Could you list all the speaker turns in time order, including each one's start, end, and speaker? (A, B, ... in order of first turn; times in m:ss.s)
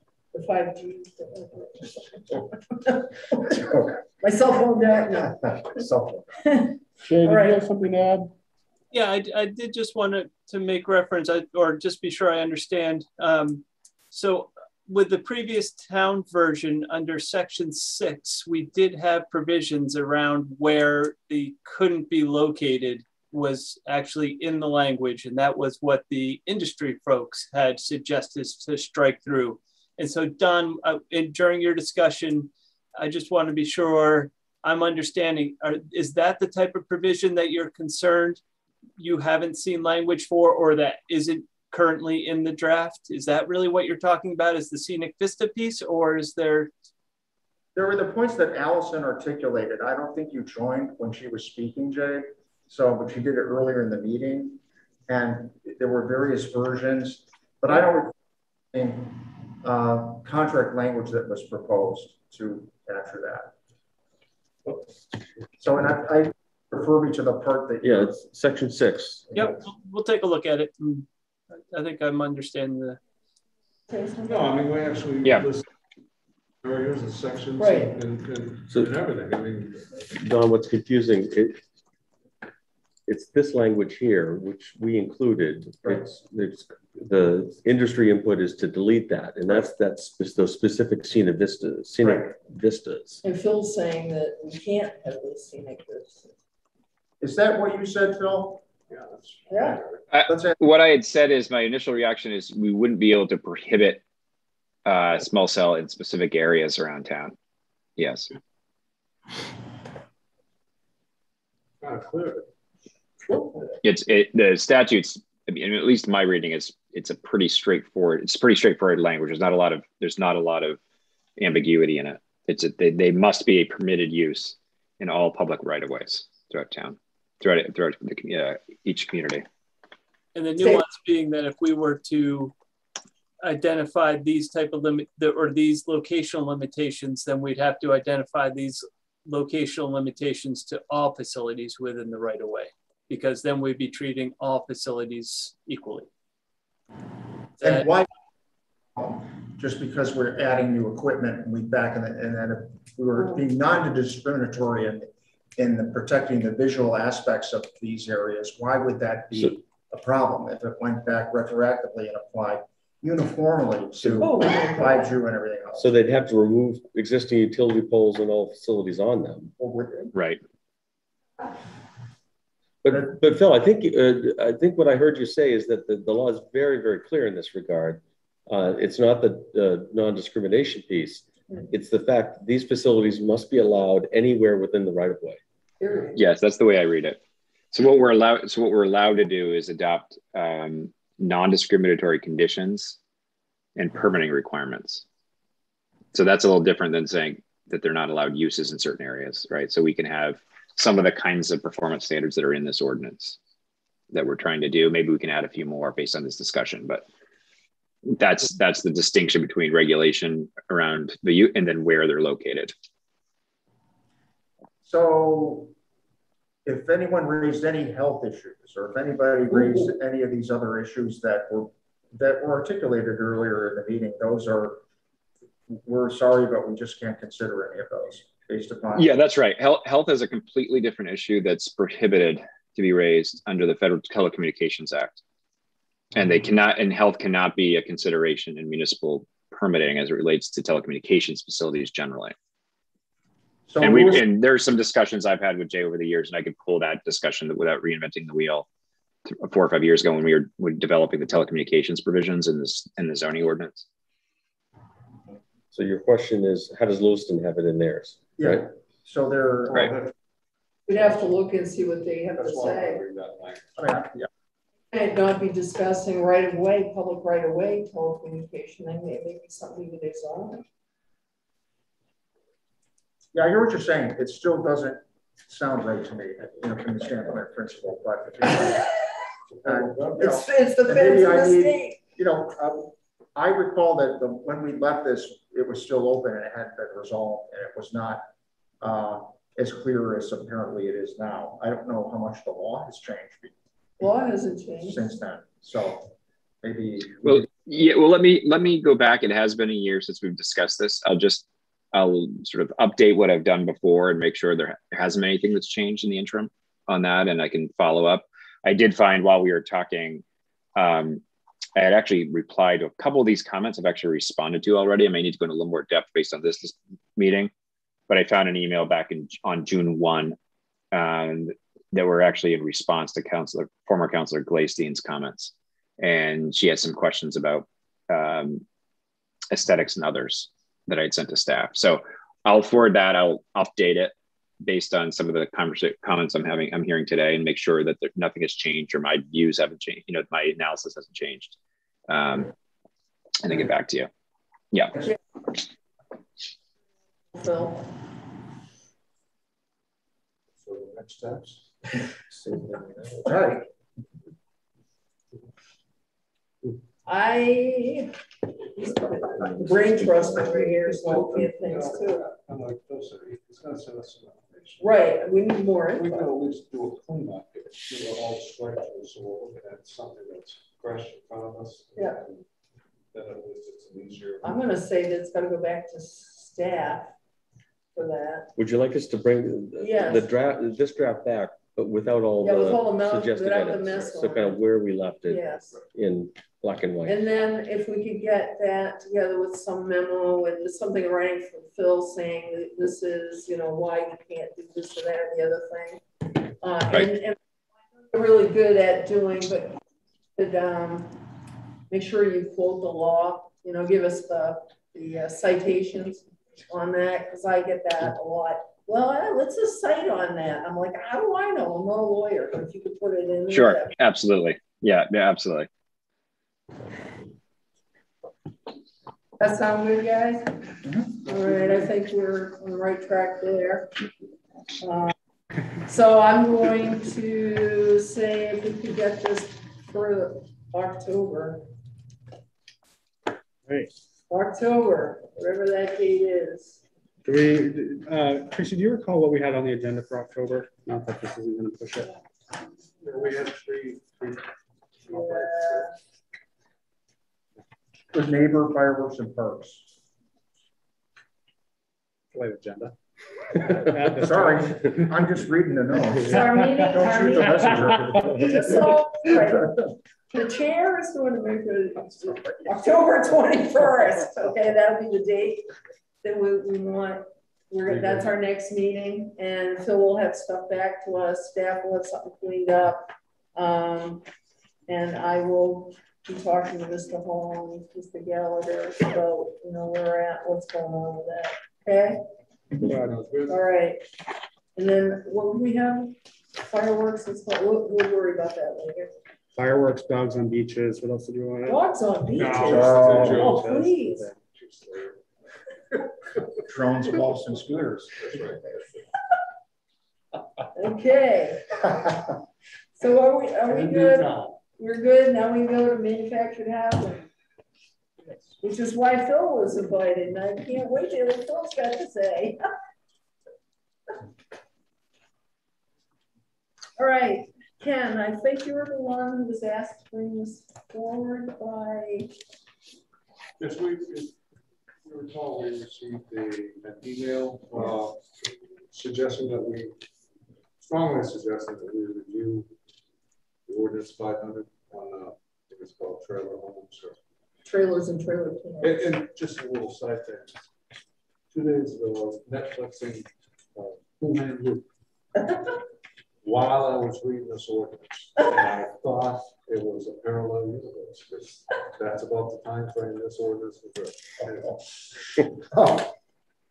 0:00.3-0:03.6 A
0:03.4-0:04.0 B
0:04.2-0:05.8 A
0:05.1-0:06.4 B
0:06.4-0:07.7 A
0:07.0-0:08.3 C
0:08.9-0:38.4 D
0:39.0-0:46.7 D
0:47.7-0:58.1 B
0:58.7-1:03.5 B
1:05.6-1:08.2 B
1:07.8-1:09.3 E
1:09.3-1:09.6 B
1:09.3-1:13.0 D
1:13.9-1:14.6 A
1:14.2-1:15.6 F
1:16.6-1:20.0 F
1:17.6-1:17.9 A
1:20.1-1:21.6 E
1:23.1-1:33.2 E
1:33.2-1:36.3 A
1:37.2-1:38.6 B
1:38.9-1:40.0 F
1:39.5-1:39.8 A
1:40.1-1:44.0 G
1:40.2-1:40.6 B
1:44.8-1:47.3 G
1:48.0-1:48.3 G
1:51.8-1:52.5 F
1:53.8-2:00.8 G
2:01.4-2:09.4 G
2:10.3-2:12.5 D
2:13.4-2:26.1 D
2:27.6-2:28.1 B
2:27.6-2:27.9 D
2:28.9-2:45.9 B
2:44.2-2:45.1 A
2:45.8-2:49.5 E
2:49.6-2:50.1 B
2:50.1-2:50.4 G
2:52.8-3:05.4 E
3:05.8-3:06.2 A
3:06.1-3:07.2 G
3:07.7-3:13.0 G
3:13.8-3:15.0 G
3:16.1-3:23.4 G
3:24.1-3:27.0 G
3:28.0-3:32.7 G
3:34.8-3:35.7 B
3:36.6-3:44.8 B
3:45.7-3:49.1 B
3:49.0-3:55.2 G
3:56.1-4:02.3 G
4:03.7-4:04.2 B
4:03.8-4:08.6 G
4:09.2-4:13.8 G
4:15.7-4:18.7 E
4:18.4-4:20.0 B
4:20.9-4:23.0 A
4:22.4-4:23.7 F
4:23.8-4:24.3 B
4:24.9-4:30.6 A
4:33.3-4:38.8 B
4:39.6-4:40.2 F
4:39.6-4:48.3 B
4:40.2-4:42.0 A
4:48.8-4:53.5 B
4:54.0-4:55.1 A
4:54.8-4:57.5 B
4:57.2-5:10.2 G
5:10.8-5:11.2 G
5:11.8-5:17.5 G
5:18.1-5:20.4 G
5:20.9-5:28.6 G
5:29.5-5:41.6 G
5:42.1-5:42.5 G
5:43.4-5:44.1 G
5:44.7-5:45.1 G
5:47.3-5:47.9 A
5:50.6-5:51.6 F
5:52.1-5:53.7 B
5:57.0-5:58.1 A
5:58.7-6:02.2 A
5:59.4-6:00.8 B
6:01.0-6:04.9 F
6:04.8-6:06.3 A
6:05.9-6:12.4 F
6:12.0-6:12.2 A
6:13.1-6:14.6 F
6:14.4-6:17.1 A
6:17.9-6:18.5 A
6:18.6-6:27.2 E
6:19.8-6:20.3 A
6:22.4-6:24.6 A
6:25.2-6:25.8 A
6:27.0-6:37.4 A
6:38.1-6:39.8 A
6:40.4-6:41.2 A
6:41.9-6:53.9 A
6:53.5-6:55.7 G
6:59.4-7:00.6 A
7:00.8-7:01.2 B
7:01.2-7:03.9 A
7:04.8-7:05.1 A
7:05.8-7:11.7 A
7:13.7-7:13.9 C
7:14.3-7:16.8 A
7:17.2-7:22.2 C
7:23.0-7:25.9 F
7:25.1-7:25.9 A
7:28.1-7:29.9 B
7:32.3-7:32.9 C
7:33.5-7:35.0 C
7:34.2-7:38.9 B
7:36.2-7:45.7 A
7:38.1-7:38.6 C
7:46.2-7:54.2 A
7:47.9-7:48.2 F
7:54.9-8:02.2 A
8:02.8-8:03.2 C
8:02.9-8:03.6 F
8:03.5-8:04.0 A
8:04.8-8:09.1 A
8:09.5-8:11.8 C
8:11.7-8:14.2 A
8:12.4-8:14.4 C
8:12.4-8:13.7 F
8:12.7-8:13.4 B
8:14.5-8:15.2 F
8:16.6-8:18.4 B
8:18.2-8:19.0 F
8:20.7-8:22.0 A
8:22.9-8:27.3 A
8:24.0-8:24.3 F
8:28.6-8:32.6 A
8:37.0-8:42.3 A
8:43.6-8:44.4 F
8:45.0-8:49.9 F
8:50.8-8:52.7 F
8:53.7-8:57.2 F
8:57.6-8:59.0 A
8:58.8-9:00.7 F
9:01.5-9:04.8 F
9:06.4-9:14.8 F
9:15.6-9:16.1 B